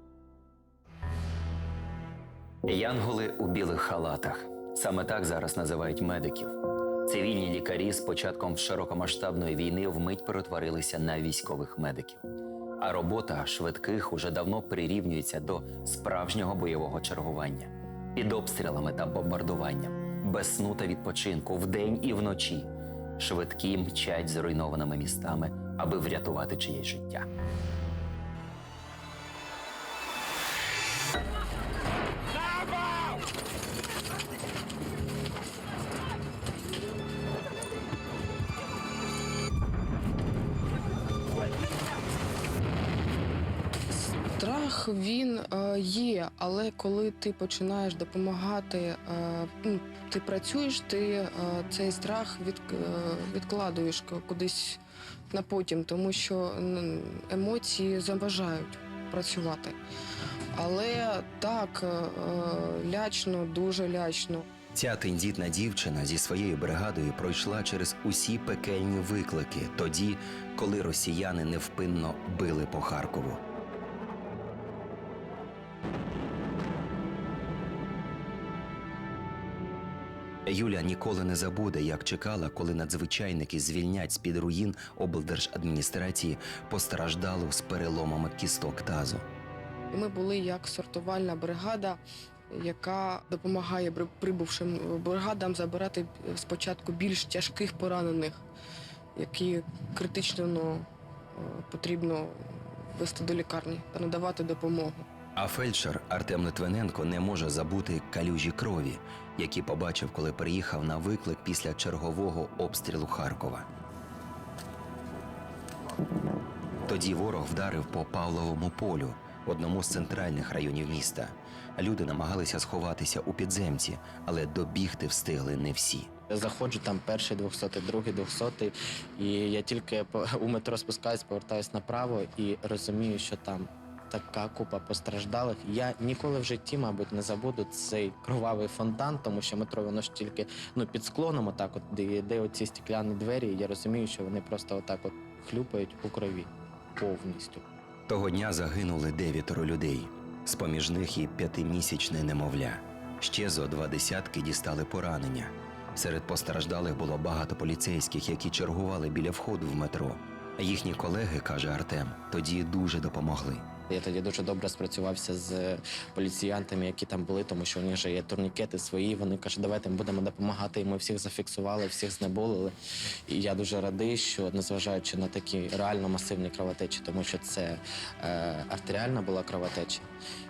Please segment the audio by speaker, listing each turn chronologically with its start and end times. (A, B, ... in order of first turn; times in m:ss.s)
0:02.6-0:12.2 A
0:12.8-0:27.3 A
0:44.3-0:54.8 B
0:55.3-0:59.8 B
1:00.6-1:04.4 B
1:04.7-1:13.4 C
1:20.4-1:29.2 C
1:29.9-1:38.4 B
1:39.2-1:45.0 B
1:45.4-1:53.7 C
1:56.9-2:06.1 C
2:06.3-2:27.6 D
2:28.1-2:43.6 C
2:43.9-2:52.7 D
2:53.3-3:00.1 D